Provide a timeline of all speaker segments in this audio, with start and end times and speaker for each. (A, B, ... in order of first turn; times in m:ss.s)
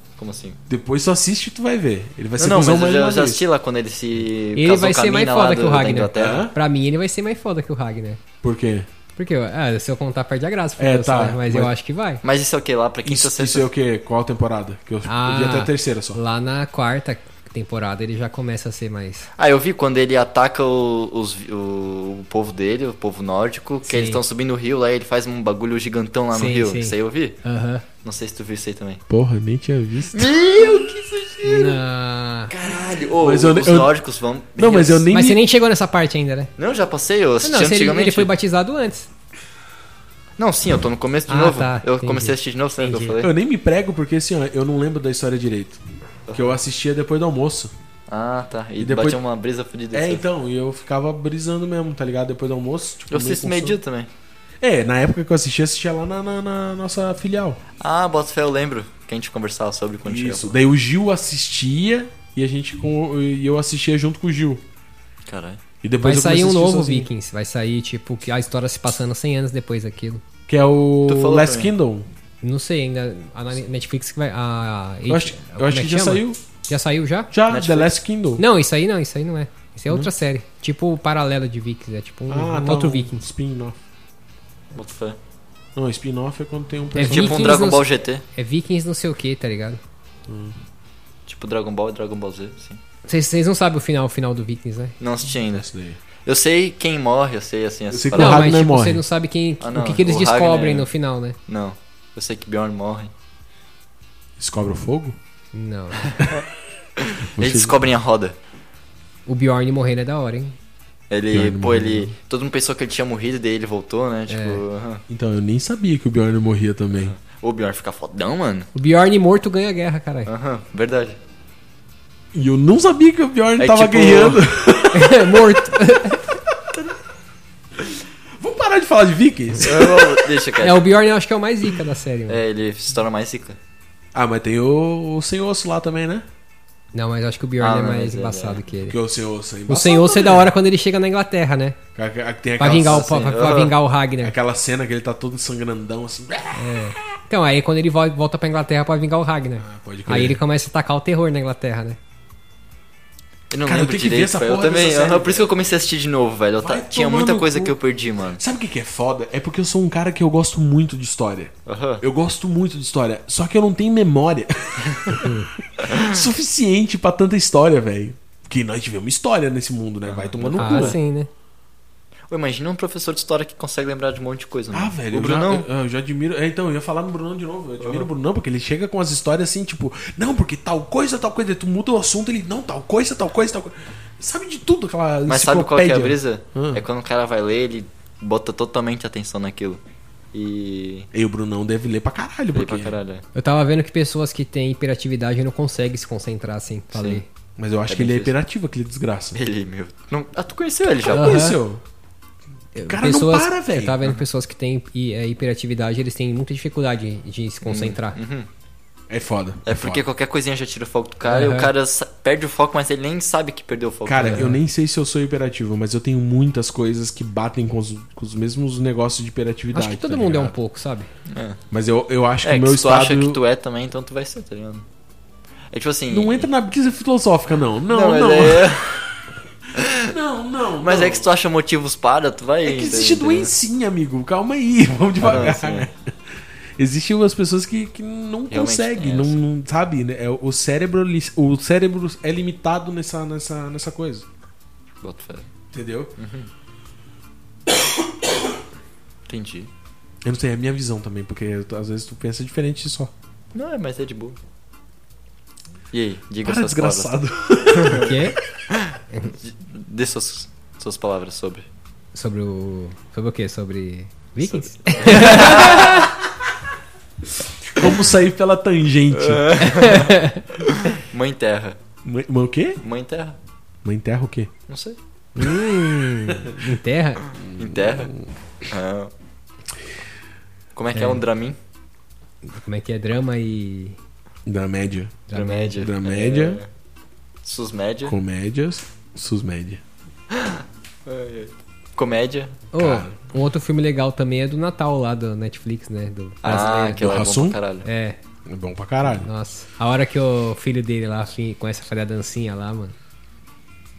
0:00.2-0:00.6 A
0:00.7-0:03.4 B
0:02.4-0:06.5 A
0:04.6-0:08.2 C
0:06.1-0:06.5 B
0:08.4-0:08.9 B
0:09.2-0:12.2 C
0:10.8-0:11.7 B
0:12.2-0:13.7 A
0:13.0-0:16.2 B
0:15.0-0:19.3 C
0:19.4-0:27.4 A
0:23.8-0:24.2 C
0:26.3-0:27.8 C
0:28.0-0:29.0 A
0:29.1-0:30.3 B
0:30.1-0:31.8 A
0:31.4-0:32.5 C
0:32.5-0:35.0 A
0:33.2-0:33.9 B
0:34.6-0:35.4 B
0:35.1-0:36.5 C
0:36.6-0:38.3 A
0:37.4-0:39.1 C
0:40.4-0:43.3 A
0:41.3-0:43.2 C
0:43.2-0:45.8 B
0:46.3-0:46.5 A
0:46.3-0:47.7 B
0:48.1-0:50.2 A
0:48.8-0:49.2 B
0:49.9-0:53.8 B
0:53.1-0:54.1 A
0:54.6-0:57.6 B
0:57.8-1:00.6 A
1:00.0-1:04.6 B
1:05.3-1:05.6 A
1:05.8-1:07.1 B
1:06.0-1:10.2 C
1:10.5-1:12.1 B
1:11.1-1:11.7 A
1:12.4-1:17.3 C
1:15.1-1:16.4 B
1:17.3-1:18.4 B
1:17.5-1:17.9 A
1:18.4-1:23.2 C
1:22.3-1:23.8 B
1:24.7-1:25.2 A
1:25.7-1:27.6 B
1:26.9-1:29.8 C
1:27.0-1:28.2 A
1:30.3-1:30.6 B
1:31.3-1:32.8 A
1:33.1-1:35.0 C
1:35.0-1:35.7 A
1:35.5-1:36.0 B
1:36.2-1:38.5 A
1:37.9-1:39.0 B
1:38.1-1:41.4 C
1:39.6-1:40.9 A
1:41.5-1:43.1 A
1:44.4-1:45.2 B
1:45.5-1:46.1 C
1:46.0-1:46.4 A
1:47.0-1:48.3 A
1:47.3-1:47.8 B
1:49.2-1:50.6 C
1:51.1-1:55.0 A
1:51.3-1:52.1 B
1:54.3-1:54.6 C
1:55.1-1:57.1 B
1:56.9-1:58.7 A
1:58.7-2:00.3 C
2:00.2-2:01.2 A
2:02.3-2:05.5 B
2:03.6-2:04.4 A
2:04.9-2:06.2 C
2:08.4-2:10.3 B
2:09.6-2:10.9 A
2:10.6-2:12.4 C
2:12.3-2:13.6 A
2:14.1-2:16.2 B
2:16.9-2:19.0 C
2:17.6-2:18.6 A
2:18.9-2:20.5 B
2:19.7-2:21.8 C
2:21.9-2:23.7 B
2:22.6-2:24.3 C
2:22.7-2:23.7 A
2:24.2-2:26.9 B
2:26.5-2:32.0 C
2:29.6-2:30.4 B
2:33.5-2:38.4 A
2:33.6-2:35.5 B
2:36.6-2:37.8 B
2:38.3-2:51.0 B
2:41.6-2:42.0 A
2:45.2-2:45.5 C
2:45.8-2:46.2 A
2:50.0-2:51.0 A
2:50.6-2:51.3 C
2:52.3-2:55.7 A
2:54.7-3:06.8 B
2:57.8-2:58.1 A
3:05.3-3:09.8 A
3:10.3-3:11.1 A
3:11.1-3:13.0 B
3:12.5-3:13.2 A
3:13.3-3:17.3 C
3:16.9-3:17.2 A
3:17.6-3:19.4 B
3:17.9-3:18.3 A
3:19.3-3:21.4 A
3:21.0-3:21.8 B
3:21.1-3:21.6 C
3:22.7-3:28.2 C
3:22.8-3:24.0 B
3:27.6-3:28.5 A
3:29.1-3:30.0 B
3:29.6-3:34.5 A
3:31.3-3:31.7 C
3:34.0-3:40.5 B
3:34.2-3:34.6 C
3:39.7-3:41.1 C
3:41.3-3:41.6 A
3:41.7-3:43.4 B
3:42.4-3:44.8 A
3:45.7-3:46.5 A
3:46.1-3:49.0 B
3:47.9-3:49.1 A
3:49.7-3:50.1 A
3:49.9-3:51.3 B
3:50.8-3:53.5 A
3:52.6-4:04.2 B
3:55.2-3:55.9 A
3:58.5-3:59.4 A
4:05.0-4:05.5 A
4:05.7-4:06.1 B
4:06.2-4:06.5 A
4:09.3-4:09.7 A
4:10.2-4:13.1 B
4:13.5-4:14.4 A
4:15.9-4:17.1 A
4:16.4-4:18.2 B
4:17.7-4:18.1 A
4:17.9-4:18.4 C
4:18.9-4:21.6 A
4:22.1-4:26.1 C
4:24.4-4:26.1 A
4:25.4-4:25.8 B
4:27.7-4:29.6 B
4:29.1-4:31.8 A
4:29.6-4:30.4 C
4:32.0-4:32.8 B
4:32.8-4:33.4 A
4:33.8-4:34.5 B
4:34.7-4:35.0 A
4:35.4-4:37.2 C
4:35.4-4:36.4 B
4:37.4-4:38.3 B
4:37.6-4:38.1 A
4:38.7-4:39.1 A
4:40.7-4:41.6 A
4:40.9-4:41.2 C
4:42.4-4:44.0 C
4:44.4-4:45.2 B
4:45.3-4:45.7 C
4:45.3-4:46.7 A
4:45.8-4:46.6 B
4:47.4-4:48.2 A
4:48.0-4:49.8 B
4:50.3-4:52.6 A
4:52.7-4:57.0 C
4:52.7-4:53.1 B
4:56.4-4:57.8 A
4:57.0-4:57.6 B
4:57.8-4:58.2 C
4:58.4-4:59.3 B
4:59.0-5:02.9 C